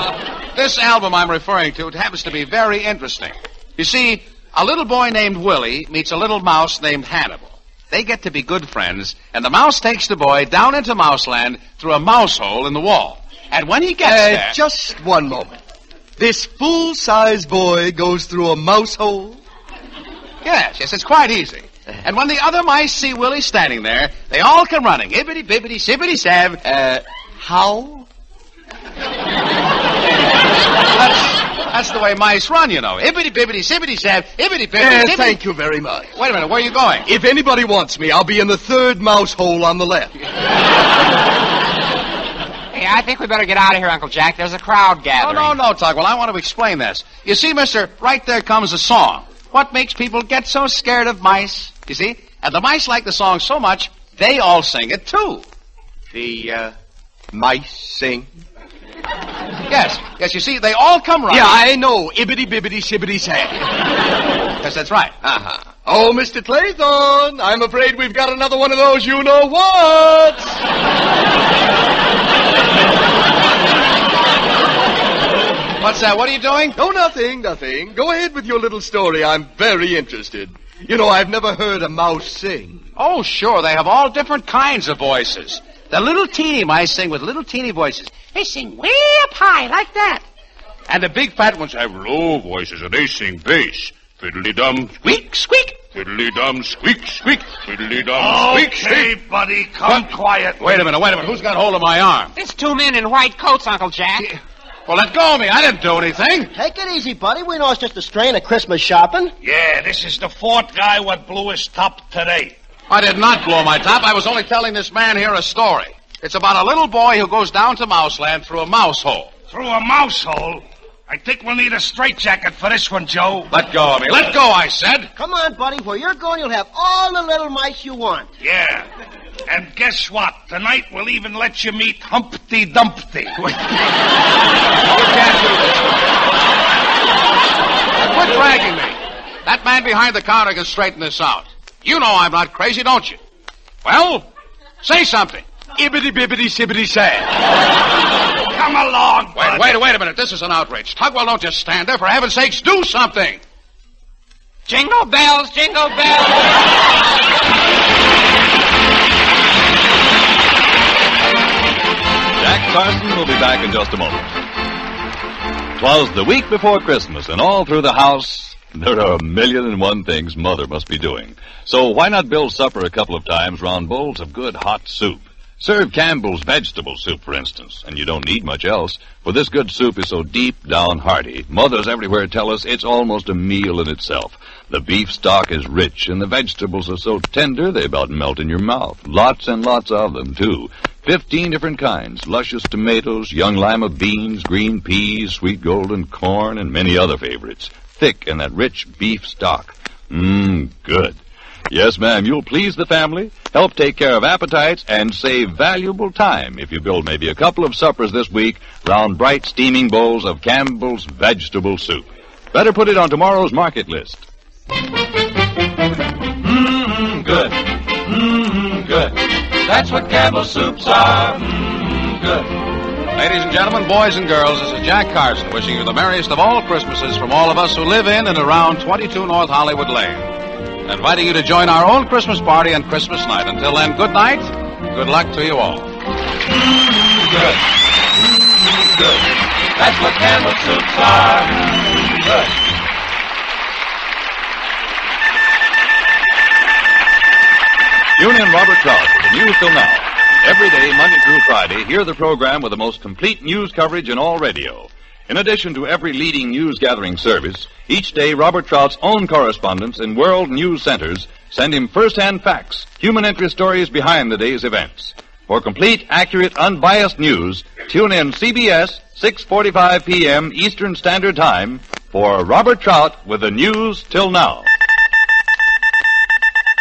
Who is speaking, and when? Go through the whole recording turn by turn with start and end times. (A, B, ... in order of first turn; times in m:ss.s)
0:00.5-0:14.6 A
0:14.0-0:15.6 B
0:16.2-0:19.4 B
0:20.4-0:26.8 A
0:26.8-0:28.1 B
0:30.9-0:35.4 A
0:34.8-0:36.2 B
0:36.1-0:37.1 A
0:37.0-0:40.1 B
0:42.7-0:45.5 C
0:45.2-0:55.4 A
0:56.1-0:56.7 B
0:57.3-0:58.3 B
0:59.7-1:01.6 A
1:01.3-1:03.6 B
1:04.6-1:05.6 A
1:05.8-1:10.6 B
1:15.8-1:16.8 A
1:16.8-1:22.8 B
1:23.0-1:30.2 A
1:30.9-1:39.0 A
1:38.1-1:40.8 D
1:40.6-1:42.3 A
1:42.4-1:44.3 C
1:44.9-1:46.5 A
1:46.5-1:49.3 E
1:49.4-1:52.6 D
1:52.9-1:59.3 A
1:59.5-2:03.5 D
2:03.5-2:05.1 A
2:05.2-2:08.3 E
2:08.4-2:08.9 D
2:09.5-2:13.4 D
2:13.4-2:13.7 A
2:14.9-2:16.0 A
2:18.0-2:23.2 A
2:23.8-2:24.3 A
2:24.8-2:25.4 A
2:25.7-2:27.4 B
2:28.5-2:29.8 D
2:29.3-2:33.4 A
2:34.7-2:36.6 C
2:42.4-2:44.4 F
2:45.8-3:34.3 F
3:36.4-3:39.1 F
3:39.7-3:42.3 F
3:43.1-3:50.3 A
3:50.8-3:55.9 A
3:59.8-4:01.6 F
4:08.2-4:34.7 F